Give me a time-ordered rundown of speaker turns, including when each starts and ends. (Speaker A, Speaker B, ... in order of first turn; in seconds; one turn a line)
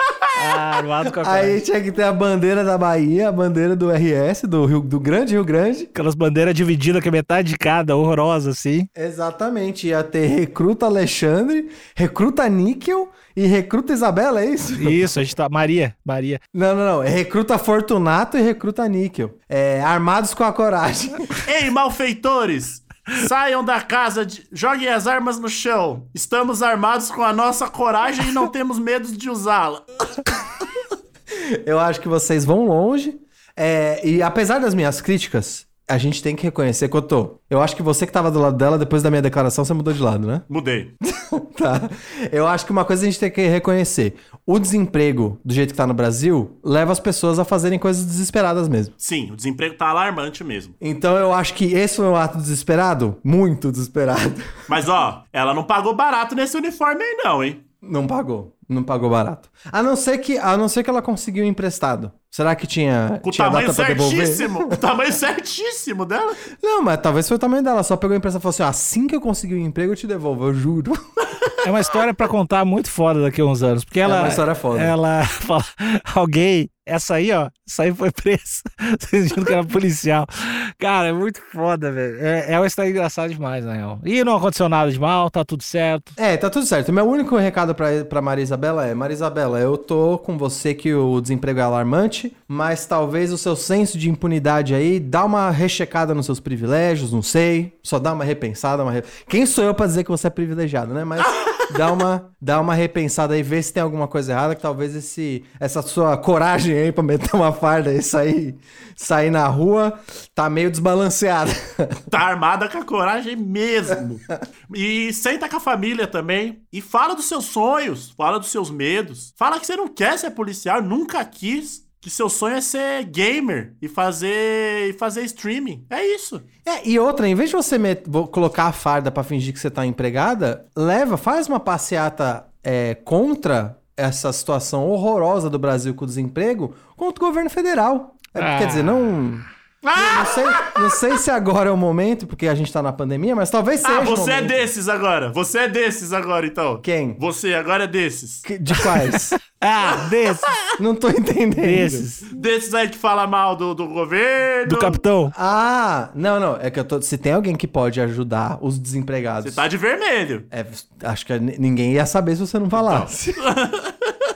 Speaker A: 0.3-1.6
Speaker B: 1.1-5.9
Speaker A: 5.9-8.9
Speaker B: 8.9-15.1
Speaker A: 14.8-16.4
Speaker B: 16.5-21.4
Speaker C: 21.4-29.8
Speaker B: 31.6-40.4
Speaker C: 40.5-40.9
Speaker B: 41.0-48.9
Speaker C: 49.0-50.7
Speaker B: 50.8-54.5
Speaker C: 54.7-57.6
Speaker B: 57.8-64.8
Speaker C: 63.2-66.4
Speaker B: 66.6-71.0
Speaker A: 71.6-86.1
Speaker B: 74.0-74.9
Speaker B: 86.2-112.0
Speaker C: 112.1-126.4
Speaker B: 126.6-144.7
Speaker A: 138.3-139.3
Speaker C: 139.8-140.8
Speaker C: 143.8-148.4
Speaker B: 146.8-147.2
Speaker B: 148.4-149.4
Speaker A: 149.6-150.5
Speaker B: 150.8-152.1
Speaker A: 151.6-152.3
Speaker C: 152.3-155.0
Speaker A: 154.7-155.3
Speaker B: 155.3-159.6
Speaker C: 159.4-160.4
Speaker B: 160.5-163.4
Speaker C: 162.7-164.1